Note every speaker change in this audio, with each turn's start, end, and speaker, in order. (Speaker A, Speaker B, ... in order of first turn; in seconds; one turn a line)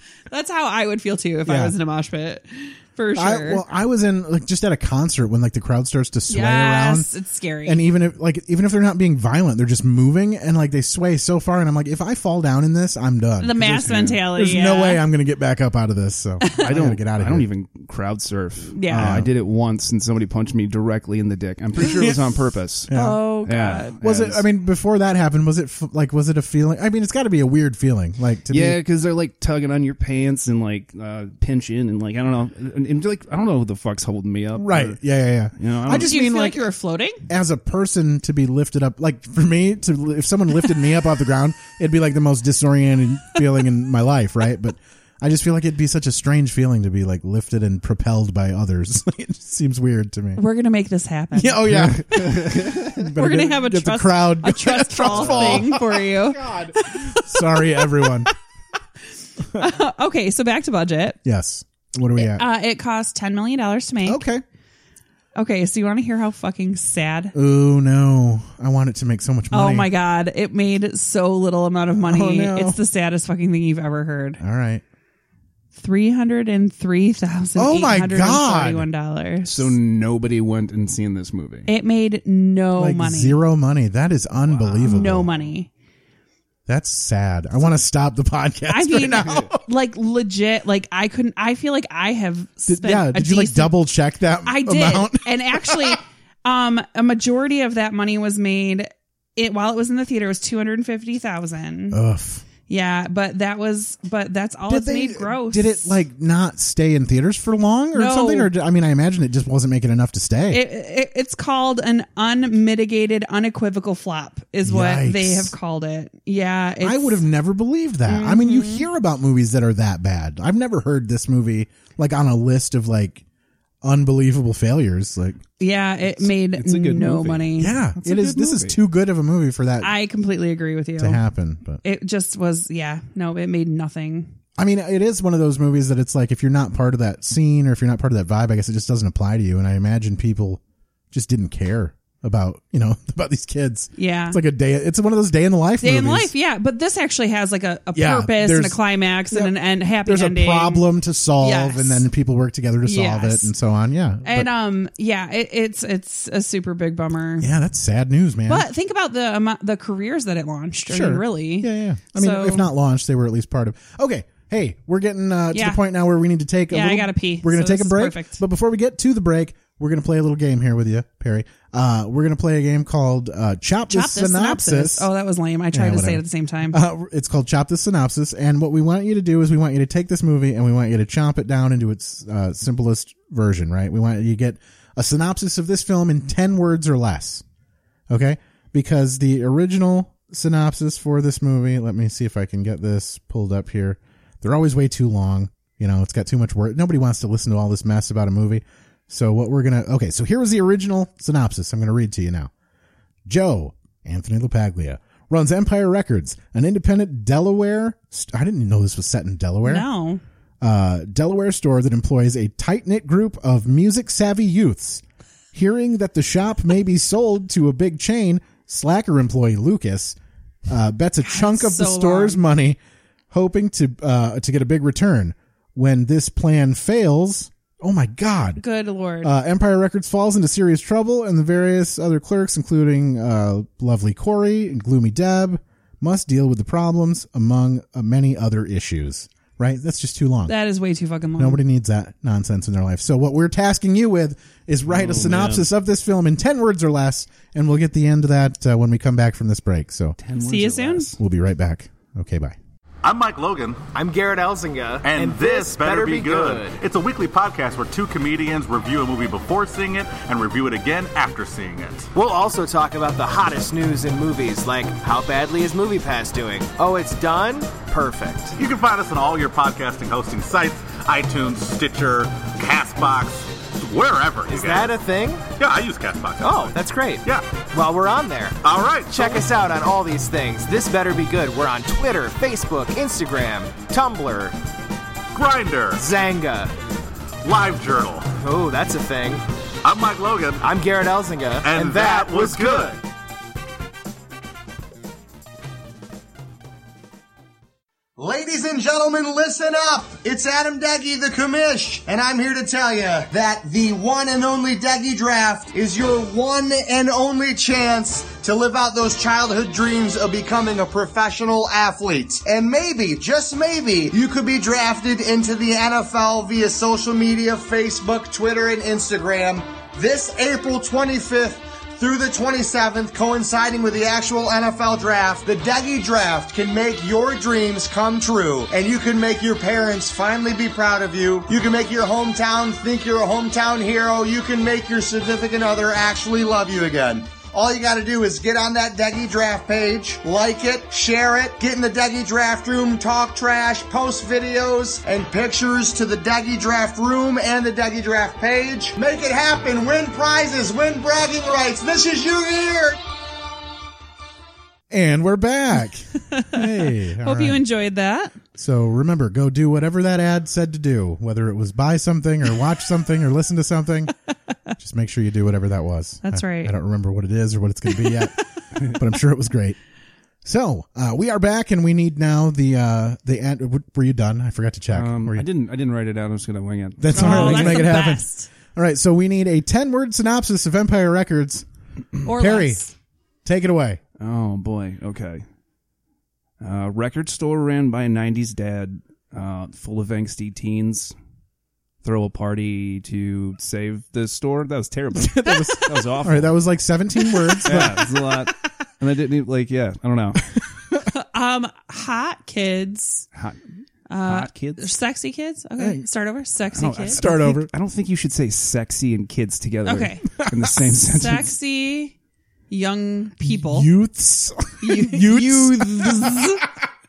Speaker A: 0.3-3.6
Speaker B: 1.4-1.7
Speaker B: 3.1-7.1
Speaker A: 6.3-7.8
Speaker B: 7.6-17.5
Speaker A: 13.4-15.0
Speaker C: 13.8-14.1
Speaker C: 16.6-22.9
Speaker A: 18.7-19.1
Speaker B: 18.9-19.3
Speaker B: 21.8-22.2
Speaker B: 22.9-23.2
Speaker A: 22.9-23.9
Speaker C: 23.4-24.4
Speaker B: 24.0-28.8
Speaker C: 28.5-35.0
Speaker B: 34.5-36.6
Speaker C: 35.5-36.1
Speaker A: 36.0-37.2
Speaker B: 37.3-50.4
Speaker A: 50.4-51.6
Speaker B: 51.3-58.3
Speaker C: 51.7-53.0
Speaker A: 53.1-58.3
Speaker C: 55.1-55.6
Speaker A: 59.5-61.2
Speaker B: 61.2-62.4
Speaker A: 62.2-64.2
Speaker B: 64.0-64.4
Speaker A: 65.3-67.3
Speaker B: 67.3-69.9
Speaker A: 69.5-74.4
Speaker B: 72.0-72.8
Speaker B: 74.4-74.8
Speaker A: 75.8-79.7
Speaker B: 77.5-78.8
Speaker C: 79.5-81.7
Speaker A: 81.7-83.4
Speaker B: 82.8-85.5
Speaker C: 84.5-84.9
Speaker A: 84.8-85.7
Speaker B: 86.7-89.6
Speaker A: 88.7-93.7
Speaker C: 89.2-89.5
Speaker B: 92.7-96.0
Speaker A: 94.4-102.0
Speaker B: 101.9-102.4
Speaker A: 102.7-106.0
Speaker B: 104.7-110.6
Speaker A: 107.9-108.5
Speaker A: 110.5-117.2
Speaker B: 114.6-115.5
Speaker B: 116.8-123.2
Speaker A: 118.0-118.8
Speaker B: 123.8-125.4
Speaker A: 125.6-127.7
Speaker C: 126.2-128.8
Speaker B: 127.6-129.9
Speaker A: 129.8-131.2
Speaker B: 131.0-131.8
Speaker A: 131.8-134.3
Speaker B: 134.6-140.6
Speaker B: 141.1-146.3
Speaker A: 143.9-144.4
Speaker A: 145.8-150.9
Speaker B: 147.9-154.5
Speaker A: 151.4-152.1
Speaker A: 152.8-153.5
Speaker A: 154.2-157.5
Speaker B: 157.4-158.7
Speaker A: 158.5-162.7
Speaker B: 160.9-175.1
Speaker A: 165.5-165.8
Speaker A: 166.7-168.4
Speaker A: 173.9-176.8
Speaker B: 175.7-187.4
Speaker B: 188.1-202.5
Speaker B: 203.2-209.9
Speaker A: 209.6-210.2
Speaker B: 210.6-215.0
Speaker B: 215.5-222.8
Speaker A: 221.2-222.4
Speaker B: 223.3-228.6
Speaker A: 228.6-229.3
Speaker B: 229.2-240.5
Speaker A: 240.5-241.6
Speaker B: 241.4-250.2
Speaker C: 244.9-245.7
Speaker C: 250.2-251.2
Speaker A: 250.4-251.1
Speaker B: 251.2-252.6
Speaker D: 253.0-253.8
Speaker E: 253.9-256.8
Speaker D: 255.0-262.1
Speaker E: 262.1-268.6
Speaker D: 268.6-275.0
Speaker E: 274.5-275.4
Speaker D: 275.6-277.6
Speaker E: 276.4-278.6
Speaker D: 278.6-279.5
Speaker E: 279.1-284.5
Speaker D: 285.3-286.1
Speaker E: 286.0-286.7
Speaker D: 287.4-288.3
Speaker E: 288.4-289.4
Speaker D: 289.8-290.7
Speaker E: 290.6-292.9
Speaker D: 291.6-293.0
Speaker F: 298.2-353.0
Speaker B: 354.9-357.6
Speaker A: 356.3-358.4
Speaker B: 358.6-364.1
Speaker B: 364.8-369.8
Speaker A: 366.2-366.7
Speaker B: 370.4-375.4
Speaker C: 374.9-377.9
Speaker B: 377.0-381.6
Speaker A: 377.1-378.5
Speaker B: 382.2-382.8
Speaker A: 382.2-382.9
Speaker B: 383.4-384.0
Speaker C: 384.2-385.4
Speaker C: 386.6-391.1
Speaker C: 392.0-396.6
Speaker B: 395.1-398.1
Speaker C: 397.6-400.4
Speaker A: 401.1-403.2
Speaker C: 403.3-403.6
Speaker A: 404.1-407.2
Speaker C: 404.2-404.9
Speaker B: 405.8-406.0
Speaker C: 406.7-411.5
Speaker B: 407.1-407.7
Speaker A: 409.9-410.3
Speaker B: 410.4-410.7
Speaker A: 411.0-412.1
Speaker A: 412.7-413.9
Speaker B: 413.4-416.6
Speaker A: 414.8-416.6